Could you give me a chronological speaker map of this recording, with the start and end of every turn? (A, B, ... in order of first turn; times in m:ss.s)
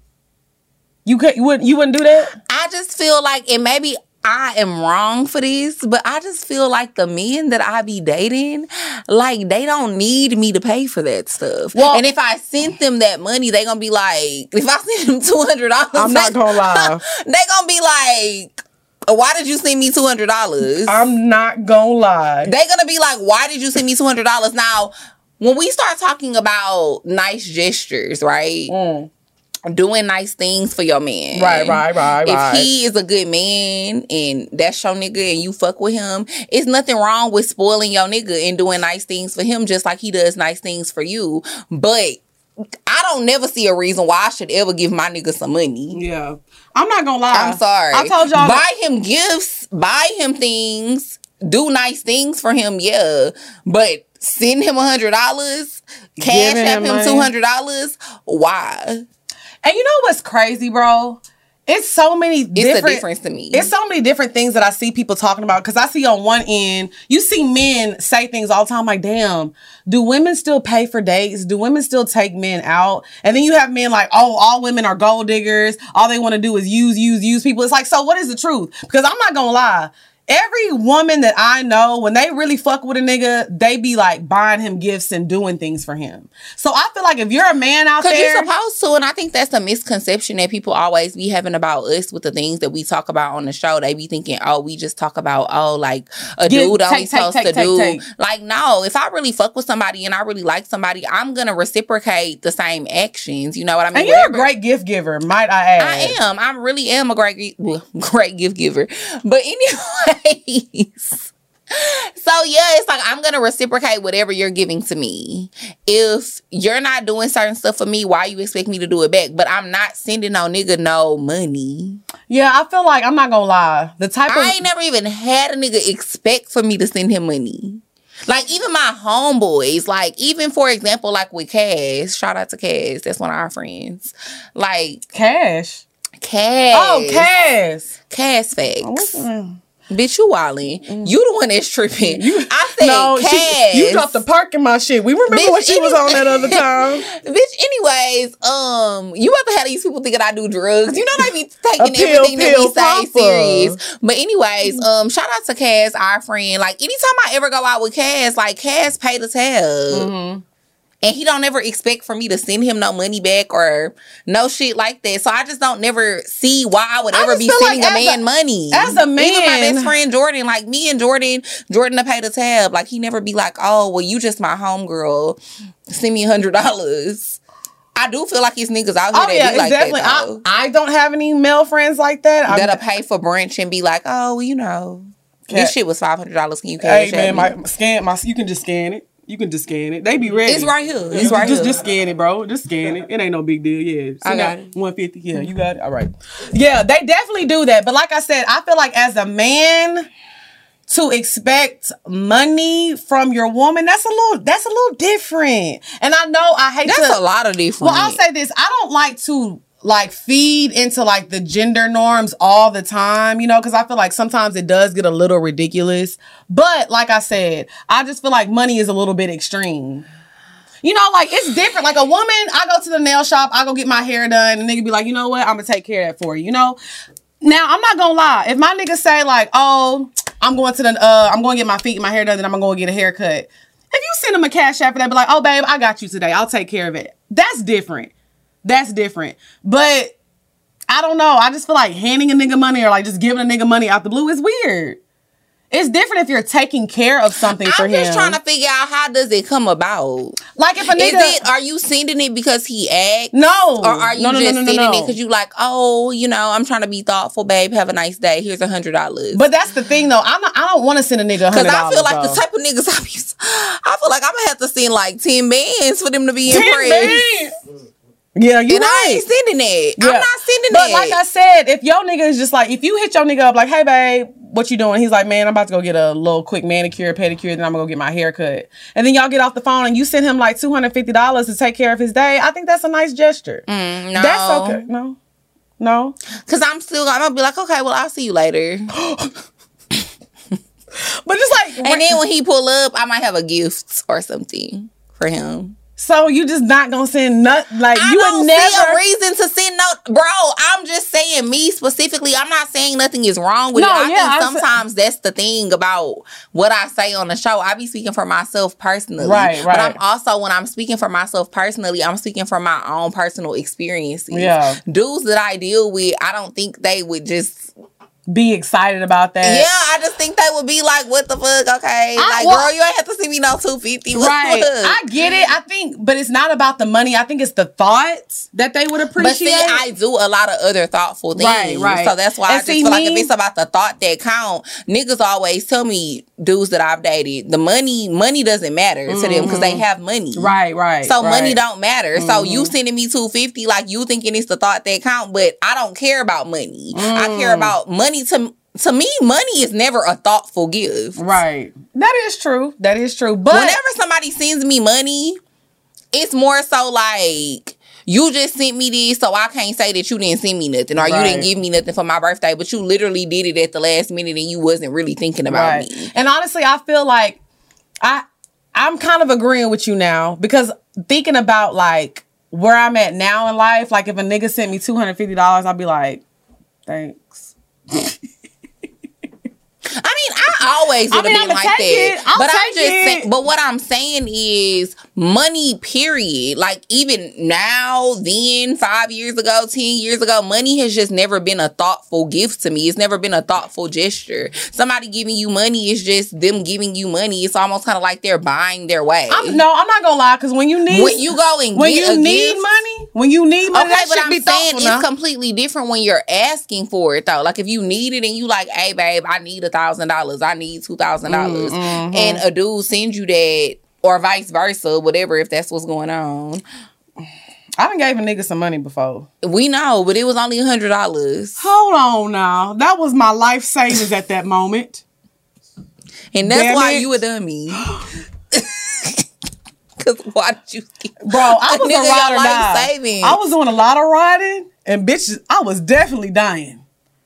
0:01.0-0:02.3 A
0:02.5-0:21.0 B
0:11.7-0:12.0 A
0:15.9-0:17.0 A
0:20.8-0:22.5 A
0:22.4-0:28.7 B
0:28.7-0:29.1 A
0:29.6-0:42.2 B
0:31.3-0:32.7 A
0:42.9-0:46.0 B
0:45.9-0:48.6 A
0:47.3-0:59.0 B
0:56.2-0:57.3 A
0:59.6-1:28.5 A
1:02.5-1:03.7 B
1:28.0-1:44.5 B
1:36.4-1:38.0 A
1:43.9-1:46.2 A
1:45.8-2:02.0 B
2:02.3-2:04.6 A
2:04.3-2:15.0 B
2:15.1-2:15.8 A
2:16.2-2:17.3 B
2:16.7-2:17.9 A
2:18.1-2:19.2 B
2:18.8-2:19.6 A
2:19.9-2:24.2 B
2:20.8-2:21.1 A
2:22.0-2:27.1 A
2:25.3-2:40.1 B
2:31.8-2:33.8 A
2:39.9-2:40.4 A
2:41.0-2:57.4 B
2:47.1-2:49.9 A
2:57.9-3:00.4 B
2:59.1-3:02.8 A
3:02.5-3:07.5 B
3:05.5-3:05.7 A
3:06.8-3:20.1 A
3:10.5-3:11.8 B
3:14.2-3:14.6 B
3:20.9-3:27.2 A
3:26.8-3:28.2 B
3:27.8-3:40.0 A
3:40.8-3:46.8 A
3:47.4-3:58.1 A
3:58.6-4:00.1 A
4:00.9-4:05.0 A
4:05.7-4:08.4 A
4:07.6-4:10.4 B
4:10.6-4:11.4 A
4:10.9-4:19.4 B
4:13.3-4:15.1 A
4:19.3-4:22.4 A
4:21.5-4:27.2 B
4:26.5-4:27.5 A
4:28.4-4:29.2 A
4:28.7-4:31.2 B
4:30.0-4:45.2 A
4:43.7-4:44.8 B
4:45.8-4:46.1 A
4:46.5-4:48.9 B
4:48.9-4:49.3 A
4:51.2-4:52.2 A
4:51.8-4:55.8 B
4:56.0-4:59.0 A
4:57.9-5:17.7 B
5:03.7-5:04.8 A
5:09.2-5:10.0 A
5:14.3-5:14.8 A
5:18.3-5:19.7 A
5:19.4-5:25.0 B
5:22.2-5:22.7 A
5:24.1-5:29.8 A
5:29.2-5:51.2 B
5:31.4-5:33.3 A
5:39.1-5:39.8 A
5:40.4-5:41.6 A
5:42.1-5:42.7 A
5:46.9-5:47.7 A
5:51.2-5:53.8 A
5:53.5-5:55.4 B
5:56.1-6:06.1 B
6:01.0-6:01.5 A
6:05.5-6:07.4 A
6:08.0-6:16.2 A
6:16.8-6:18.1 A
6:20.0-6:39.6 B
6:21.1-6:23.3 A
6:39.3-6:45.0 A
6:40.9-6:42.6 B
6:43.7-6:56.6 B
6:51.3-6:52.4 A
6:57.8-6:59.3 A
6:59.4-7:01.6 B
7:01.6-7:05.0 A
7:06.3-7:07.9 B
7:06.4-7:07.1 A
7:08.5-7:09.2 B
7:10.0-7:13.4 B
7:11.2-7:16.8 A